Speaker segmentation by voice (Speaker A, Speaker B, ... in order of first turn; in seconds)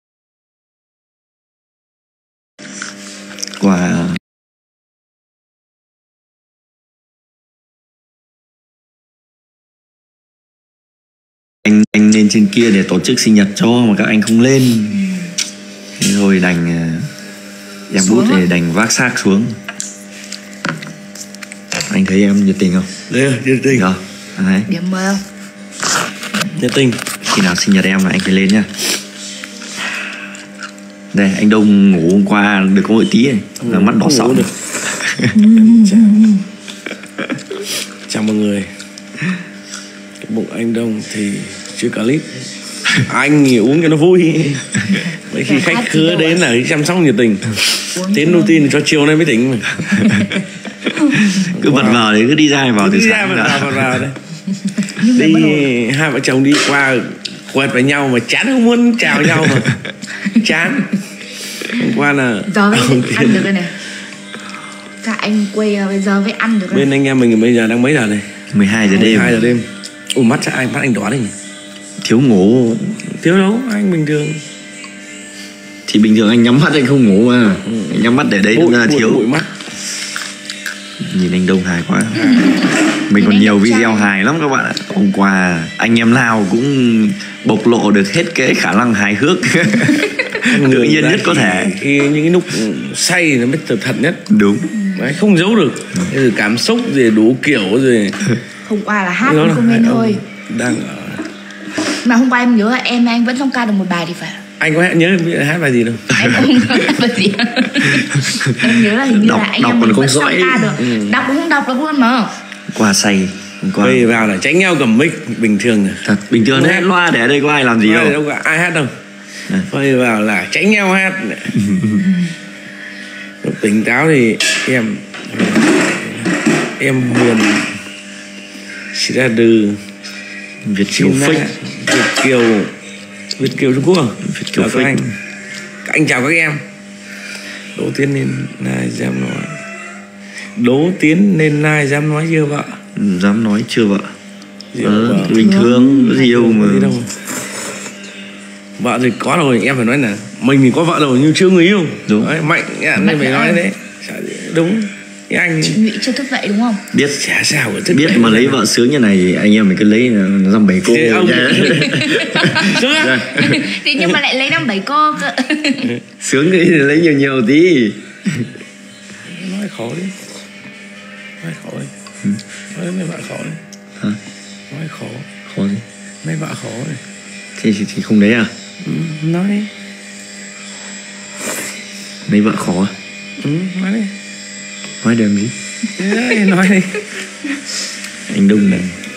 Speaker A: 3.6-4.2, 11.6-15.1, 16.0-17.1, 17.9-19.6, 21.9-22.9, 23.7-24.7, 27.3-28.7, 31.1-35.4, 50.0-54.0, 68.5-69.4, 72.0-73.0, 75.9-79.2, 81.0-82.5, 83.1-91.8, 94.3-94.7, 106.1-106.8, 107.9-110.8, 112.7-114.2, 116.0-118.2, 121.5-122.1, 130.6-131.5, 134.2-135.1, 142.9-144.1, 144.8-147.0, 152.1-152.3, 156.9-157.2, 157.9-163.7, 166.2-168.5, 175.5-175.8, 177.6-178.5, 182.3-182.9, 185.0-185.5, 188.3-188.9
Speaker B: 18.0-18.5, 24.7-25.2, 35.3-36.4, 44.9-46.4, 48.0-48.8, 49.9-50.5, 51.0-51.3, 54.5-55.7, 62.5-63.7, 65.0-66.9, 68.9-69.6, 82.1-84.1, 94.7-95.2, 98.7-100.2, 101.9-104.4, 106.1-112.3, 145.3-146.4, 152.9-153.7, 155.6-156.8, 161.8-166.0
Speaker C: 23.1-23.9, 26.6-27.0, 33.6-34.5, 35.5-36.3, 38.1-38.7, 40.2-42.4, 42.9-49.8, 51.5-52.1, 52.8-54.2, 55.0-59.8, 60.4-61.0, 61.7-63.6, 66.7-68.3, 68.9-71.3, 73.1-74.4, 77.7-79.5, 90.5-94.2, 95.0-98.2, 99.2-101.2, 104.6-106.1, 110.8-111.3, 113.8-116.9, 117.8-118.9, 119.7-121.5, 123.4-127.7, 128.9-129.8, 130.9-132.7, 133.4-135.0, 135.8-136.6, 137.8-139.6, 140.6-142.8, 144.7-145.5, 146.2-147.1, 148.8-155.8, 157.2-158.6, 160.8-162.0, 162.5-163.2, 169.2-170.1, 171.4-171.9, 172.7-173.6, 174.7-175.3, 176.2-177.0, 178.8-179.7, 183.4-184.1, 186.0-187.1